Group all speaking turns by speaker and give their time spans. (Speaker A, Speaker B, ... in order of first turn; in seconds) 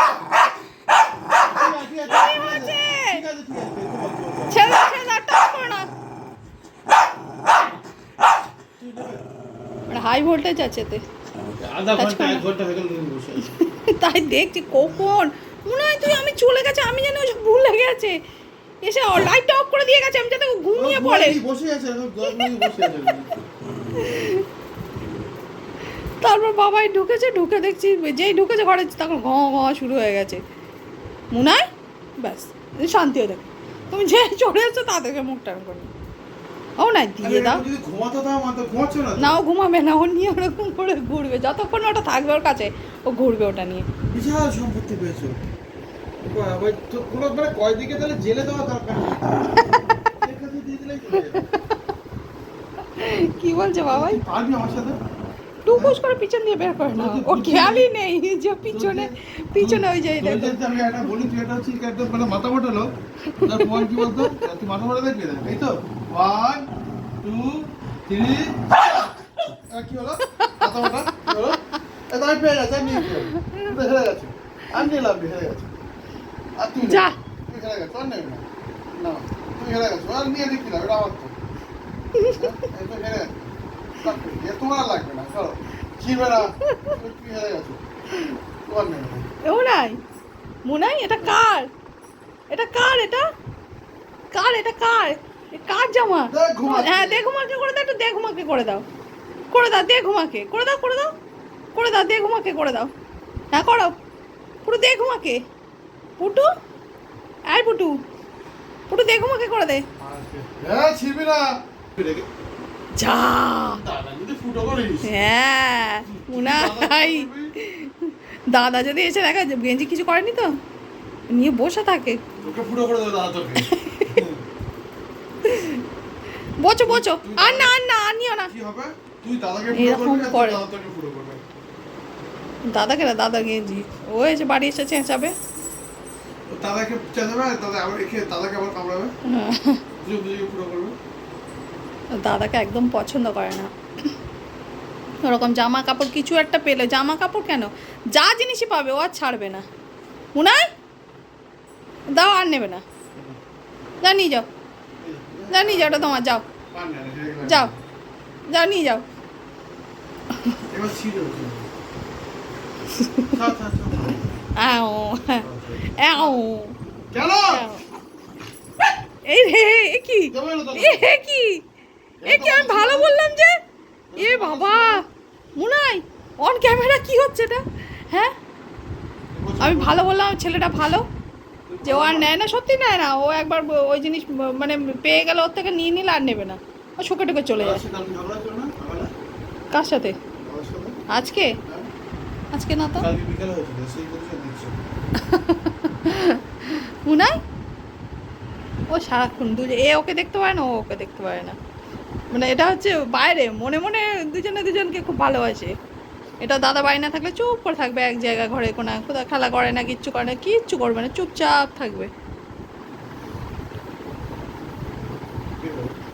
Speaker A: 1.4-4.7, 8.8-9.2, 11.6-13.5, 20.7-23.3, 37.2-39.4, 44.1-45.4, 46.2-49.5, 50.1-51.5, 53.9-55.0, 56.9-57.9, 58.7-62.9, 63.4-66.7, 67.2-68.7, 69.7-71.6, 72.1-75.7, 76.6-78.4, 79.0-81.3, 82.3-87.8, 88.7-89.2, 96.3-97.3, 110.0-112.2, 113.6-115.1, 116.0-117.5, 122.4-124.4, 126.8-127.7, 128.5-131.4, 136.5-139.1, 140.0-140.9, 155.0-157.8, 160.7-161.7, 163.3-164.2, 165.4-166.4, 167.1-167.6, 170.3-171.1, 172.2-173.1, 174.1-175.0, 179.3-180.0, 181.7-182.3, 187.6-189.1, 190.4-191.0, 193.0-194.8, 215.6-215.9
Speaker B: 2.1-3.2, 4.5-5.9, 9.9-11.0, 11.9-12.4, 13.4-18.2, 18.8-21.4, 22.3-22.8, 23.9-24.4, 26.2-30.4, 31.3-31.6, 32.2-35.9, 36.8-37.6, 39.2-43.9, 51.1-51.6, 53.0-54.2, 55.6-60.6, 63.3-64.4, 70.4-71.4, 72.8-73.7, 76.8-77.2, 82.2-82.5, 86.6-87.0, 89.4-90.0, 90.7-91.7, 92.5-93.2, 94.3-98.8, 99.5-101.1, 101.7-102.9, 103.5-103.9, 104.6-105.4, 106.2-106.5, 107.5-107.9, 108.9-109.8, 113.0-113.8, 115.0-120.5, 121.3-122.2, 123.6-124.2, 125.4-125.8, 126.6-128.5, 129.7-130.6, 132.7-135.3, 139.3-139.8, 142.2-144.1, 145.2-149.6, 150.3-150.7, 152.1-152.8, 154.0-154.4, 155.5-156.4, 157.4-157.7, 158.5-159.0, 162.9-163.3, 164.6-165.4, 165.9-166.7, 167.5-167.8, 169.2-171.6, 172.2-173.5, 174.2-175.0, 175.6-178.3, 179.6-181.0, 181.8-187.8, 189.7-190.2, 191.1-191.5, 192.5-193.1, 195.2-197.3, 198.9-201.5, 202.3-205.7, 206.4-212.1